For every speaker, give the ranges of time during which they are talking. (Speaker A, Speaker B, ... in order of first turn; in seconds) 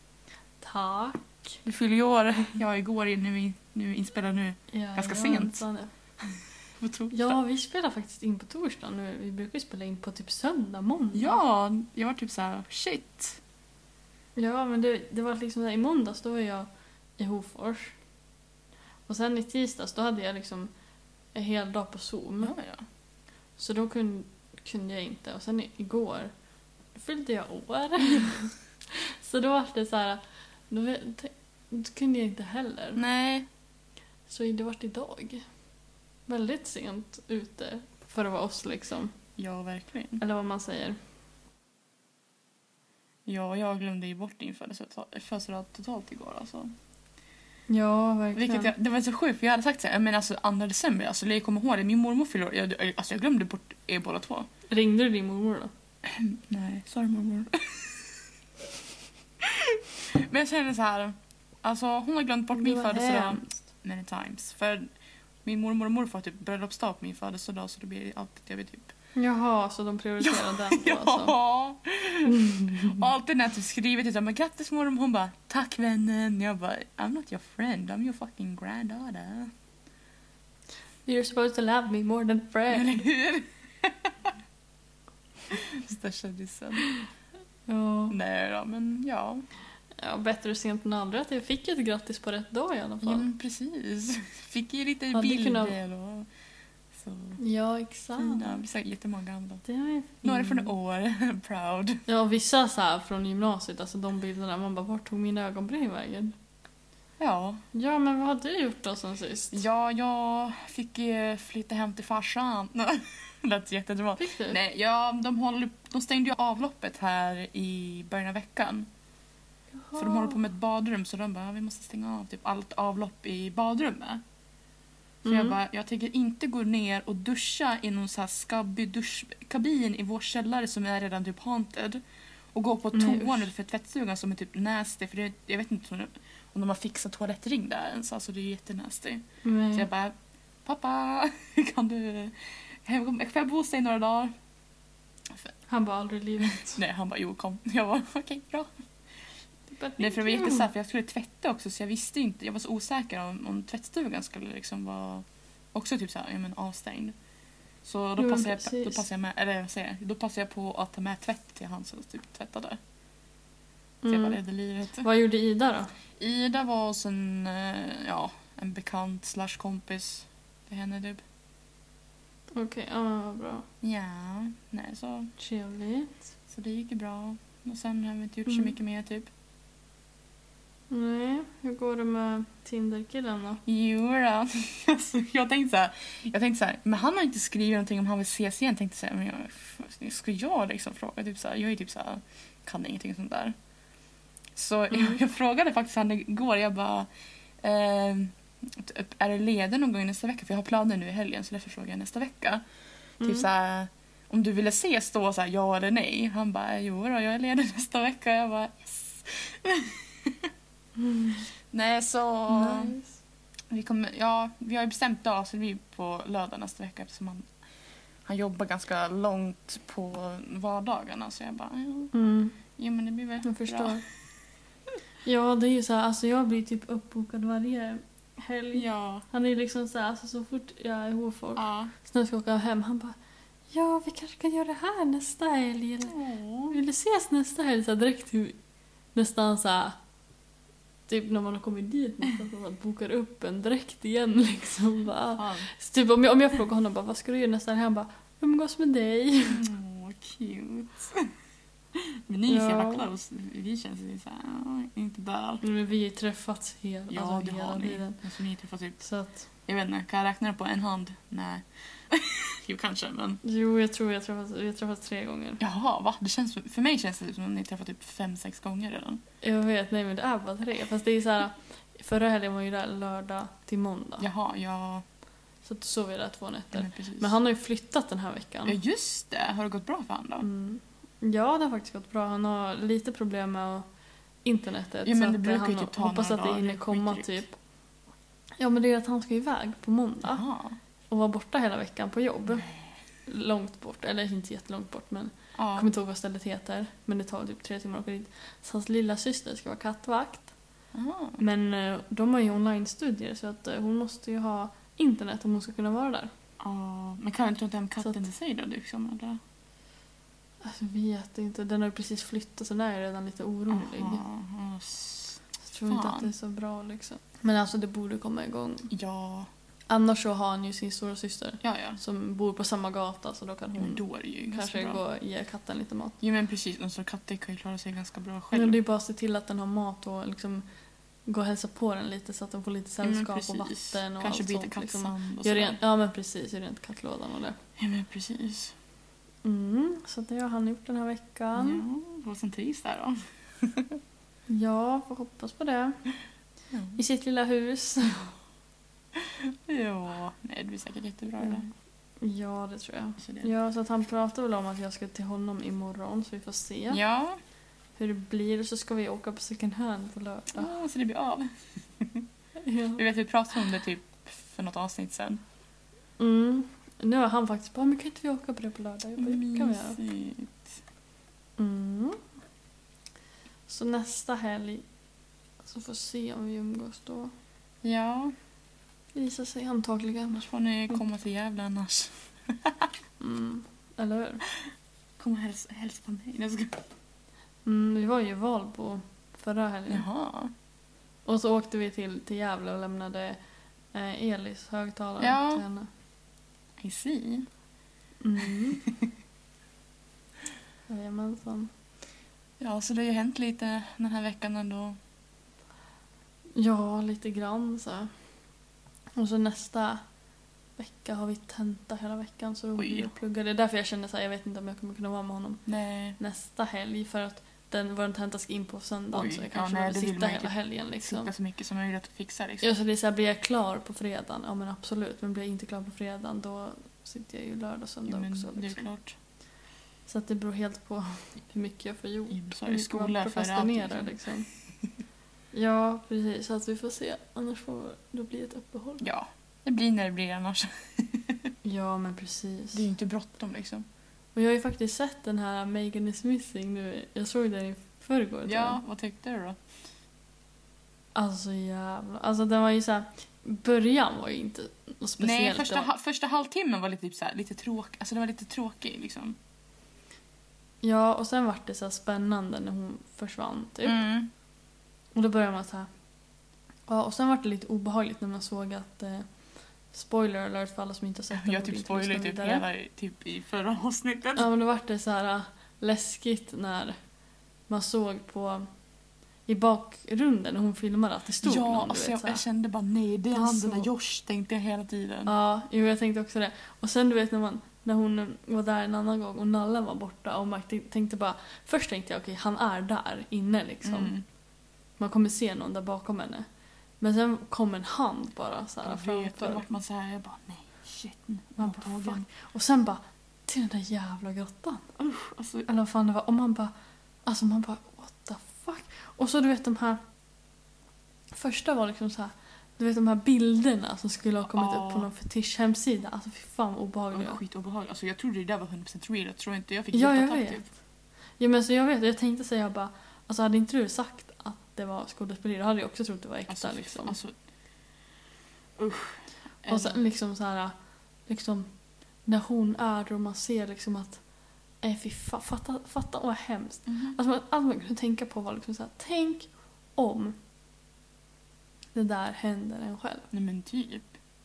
Speaker A: 0.6-1.6, 4.7-5.9, 7.1-11.4, 14.3-18.0, 19.1-20.7, 21.3-22.6, 23.6-26.3, 26.9-33.0, 34.3-35.4, 36.3-39.1, 40.2-41.0, 47.7-48.7, 54.7-55.7, 62.5-63.6, 69.2-71.3, 72.2-73.1, 81.0-83.0, 87.7-88.2, 90.0-93.3, 95.1-95.8, 97.4-98.6, 99.6-100.7, 102.1-106.3, 107.7-109.6, 114.2-114.6, 119.8-120.4, 125.2-125.5, 132.9-133.4, 139.4-139.9, 145.7-146.8, 149.7-150.7, 158.2-159.0, 164.0-164.4, 165.0-165.9, 172.5-173.7, 175.4-176.2, 178.5-178.7, 180.9-183.6, 194.9-195.2, 203.2-203.5, 211.0-211.4, 212.5-213.1, 222.1-222.6, 223.4-224.0, 225.2-233.2, 233.7-236.2, 236.7-238.6, 239.1-239.9, 241.1-249.6, 252.5-253.1, 255.6-258.2, 259.0-259.4, 263.4-265.6, 269.4-274.3, 275.6-278.8, 280.4-283.9, 284.4-287.5, 288.6-290.4, 291.1-292.7, 293.2-300.5, 301.4-306.3, 310.6-314.2, 315.6-318.9, 319.9-326.2, 328.5-330.6, 331.3-337.6, 339.4-341.8, 344.5-346.0, 346.9-348.3, 352.2-357.0, 358.0-360.7, 362.6-363.0, 366.2-370.0, 371.6-372.2, 373.7-374.8, 375.6-377.3, 379.1-380.4, 383.2-384.4, 387.6-390.1, 391.2-393.4, 393.9-395.9, 398.2-398.8, 400.9-401.7, 406.6-408.1, 409.2-410.0, 410.8-415.6, 416.2-421.3, 422.6-428.9, 430.1-434.5, 435.5-439.0, 441.6-442.8, 444.3-448.8, 451.1-455.9, 460.8-464.0, 465.1-465.9, 466.9-469.3, 469.9-472.6, 474.4-477.0, 477.7-478.7, 479.5-482.4, 483.3-483.9, 485.2-494.1, 495.0-496.5, 497.0-499.6, 501.6-504.9, 505.6-506.7, 507.2-510.0, 511.3-517.4, 519.9-520.6, 521.4-527.2, 529.7-530.7, 531.3-531.7, 532.2-534.2, 534.8-540.4, 541.9-543.2
Speaker B: 1.6-5.6, 6.8-7.4, 11.1-13.4, 22.4-22.8, 33.0-33.5, 39.4-40.2, 43.2-46.7, 48.3-54.5, 56.0-58.2, 59.4-64.9, 65.4-68.9, 70.2-79.5, 82.7-84.1, 85.5-86.8, 88.1-89.5, 93.0-96.3, 96.9-97.4, 98.2-99.6, 100.2-102.0, 107.2-107.6, 109.5-118.9, 119.9-124.2, 125.2-132.0, 132.5-144.3, 146.4-148.7, 150.0-157.1, 157.8-162.8, 164.1-165.1, 166.2-171.2, 173.8-175.3, 176.5-179.3, 183.7-193.5, 194.5-197.1, 197.6-202.6, 203.2-210.5, 211.7-212.9, 213.7-217.5, 218.2-222.1, 222.8-224.0, 228.7-229.2, 231.6-231.9, 236.1-236.8, 245.4-245.7, 249.5-251.3, 251.9-255.6, 257.1-259.0, 259.6-263.4, 265.6-269.2, 274.2-275.0, 276.7-277.4, 278.6-280.5, 285.0-287.4, 290.2-290.8, 295.5-295.9, 300.9-301.4, 306.6-309.4, 313.7-316.3, 318.9-319.5, 321.6-322.0, 323.7-325.0, 326.2-328.8, 333.0-335.8, 337.8-338.7, 341.6-344.0, 346.7-347.0, 349.1-351.7, 353.2-353.5, 356.9-357.4, 360.5-362.3, 363.0-365.4, 369.2-370.8, 377.8-378.3, 380.3-382.9, 385.2-386.8, 389.9-390.5, 395.2-395.6, 396.8-397.5, 402.6-405.0, 412.8-413.1, 415.6-416.2, 419.1-422.7, 428.0-429.1, 432.3-434.1, 439.0-441.5, 442.7-443.9, 448.4-449.6, 455.2-459.4, 463.8-464.3, 471.3-474.5, 481.4-485.3, 493.8-494.2, 498.8-502.3, 505.0-505.7, 514.5-515.1, 517.1-520.7, 526.5-527.3, 528.8-530.0, 536.9-537.2, 543.3-544.1